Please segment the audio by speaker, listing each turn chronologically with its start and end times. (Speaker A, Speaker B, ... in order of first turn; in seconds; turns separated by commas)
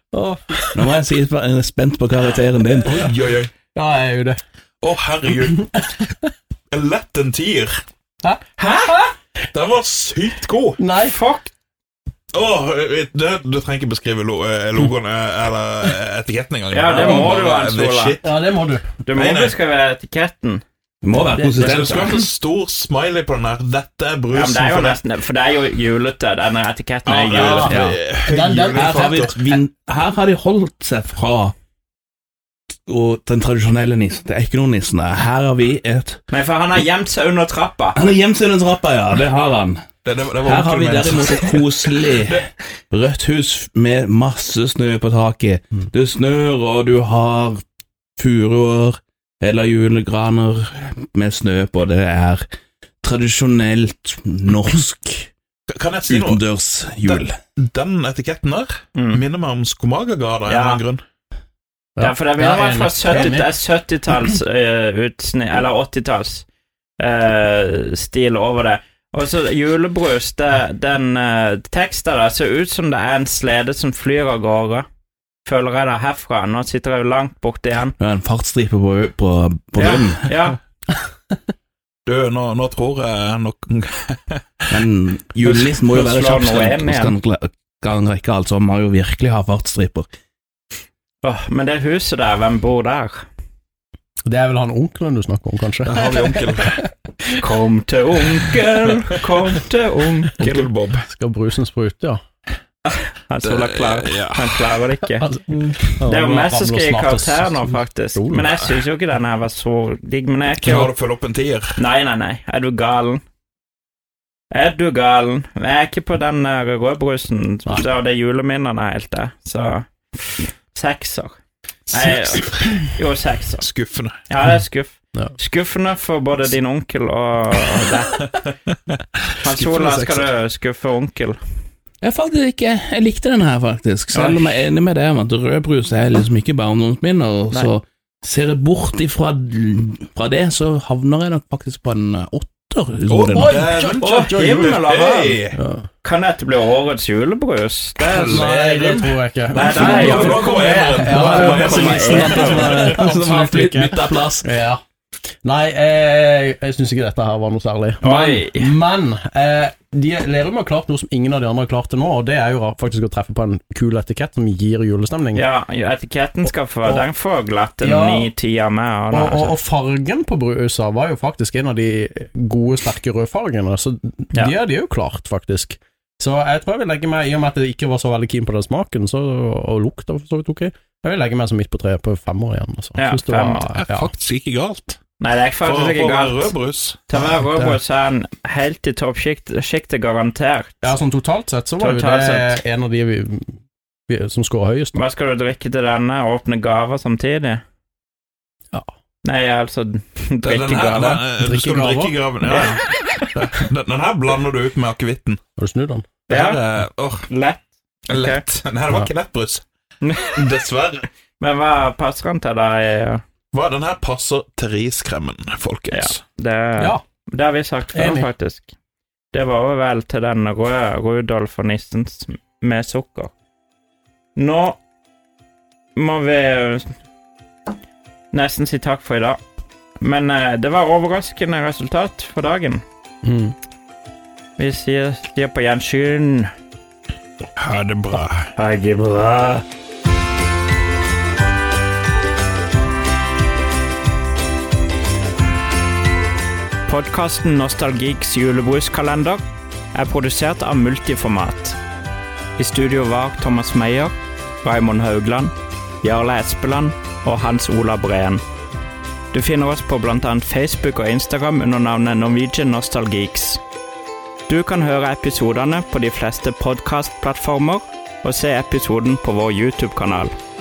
Speaker A: 0.1-0.9, Speaker B: 0.8-3.1, Speaker C: 2.9-3.5, Speaker A: 3.8-4.4, Speaker C: 4.8-5.8, Speaker A: 5.5-5.8, Speaker C: 6.7-7.8, Speaker A: 8.2-9.1, Speaker D: 8.6-9.1, Speaker C: 9.5-10.8, Speaker A: 10.8-11.2, Speaker D: 11.0-11.5, Speaker C: 12.3-18.2, Speaker D: 16.7-18.2, Speaker A: 18.2-18.9, Speaker D: 19.0-20.6, Speaker C: 19.1-19.6, Speaker B: 21.0-22.2, Speaker A: 21.4-21.6, Speaker C: 21.5-25.0, Speaker D: 24.3-27.9, Speaker C: 27.1-29.4, Speaker A: 27.3-27.7, Speaker B: 27.6-28.0, Speaker A: 28.3-29.3, Speaker B: 28.7-31.5, Speaker B: 32.9-36.2, Speaker D: 36.3-38.0, Speaker B: 38.0-39.9, Speaker C: 40.0-42.4, Speaker B: 40.4-47.6, Speaker B: 48.2-52.5, Speaker B: 53.0-55.3, Speaker C: 55.7-56.4, Speaker B: 56.1-57.4, Speaker C: 57.0-61.0, Speaker D: 59.0-59.2, Speaker D: 60.5-60.8, Speaker A: 62.0-63.5, Speaker D: 62.0-66.5, Speaker D: 67.0-74.9, Speaker D: 75.5-78.0, Speaker B: 78.0-80.3, Speaker D: 79.8-80.6, Speaker C: 82.1-84.8, Speaker B: 84.7-90.1, Speaker D: 85.5-87.2, Speaker D: 91.2-93.3, Speaker A: 94.3-96.8, Speaker C: 95.8-96.8, Speaker D: 97.4-100.7, Speaker C: 100.4-101.1, Speaker A: 101.1-102.2, Speaker D: 103.3-105.3, Speaker C: 103.4-104.7, Speaker A: 105.2-108.5, Speaker D: 106.1-110.9, Speaker C: 110.6-111.8, Speaker D: 111.8-113.2, Speaker D: 114.5-121.4, Speaker D: 121.9-123.7, Speaker C: 123.6-124.2, Speaker D: 124.3-128.3, Speaker D: 129.4-131.4, Speaker C: 129.5-130.3, Speaker B: 132.0-143.6, Speaker D: 134.1-134.5, Speaker C: 143.1-145.6, Speaker A: 143.3-144.8, Speaker D: 144.0-145.4, Speaker A: 145.6-145.8, Speaker D: 146.0-148.6, Speaker C: 148.0-153.1, Speaker A: 148.1-154.8, Speaker D: 149.5-153.0, Speaker B: 153.0-154.5, Speaker A: 155.4-165.4, Speaker D: 158.0-158.7, Speaker D: 165.3-169.6, Speaker A: 167.8-168.3, Speaker A: 169.1-184.1, Speaker D: 183.0-183.7, Speaker C: 183.7-185.0, Speaker D: 185.2-186.6, Speaker C: 185.6-187.8, Speaker D: 187.1-190.8, Speaker A: 190.8-193.5, Speaker D: 191.8-192.6, Speaker A: 194.1-195.0, Speaker D: 194.9-197.6, Speaker D: 199.2-201.2, Speaker C: 200.5-205.4, Speaker A: 201.4-202.2, Speaker D: 202.5-202.8, Speaker A: 205.6-206.1, Speaker C: 206.3-207.3, Speaker D: 206.3-206.6, Speaker D: 207.3-208.4, Speaker C: 208.1-209.6, Speaker D: 210.0-210.3, Speaker C: 210.3-211.1, Speaker D: 211.4-213.2, Speaker C: 213.5-216.2, Speaker D: 215.9-218.7, Speaker A: 217.9-218.3, Speaker D: 219.3-223.3, Speaker D: 224.4-224.8, Speaker D: 226.0-226.9, Speaker D: 228.3-229.4, Speaker D: 230.0-232.8, Speaker A: 233.2-233.6, Speaker D: 234.6-236.5, Speaker C: 237.6-238.5, Speaker D: 238.6-239.6, Speaker D: 246.9-249.4, Speaker D: 249.9-251.8, Speaker D: 252.6-258.4, Speaker D: 259.3-263.6, Speaker D: 264.5-270.3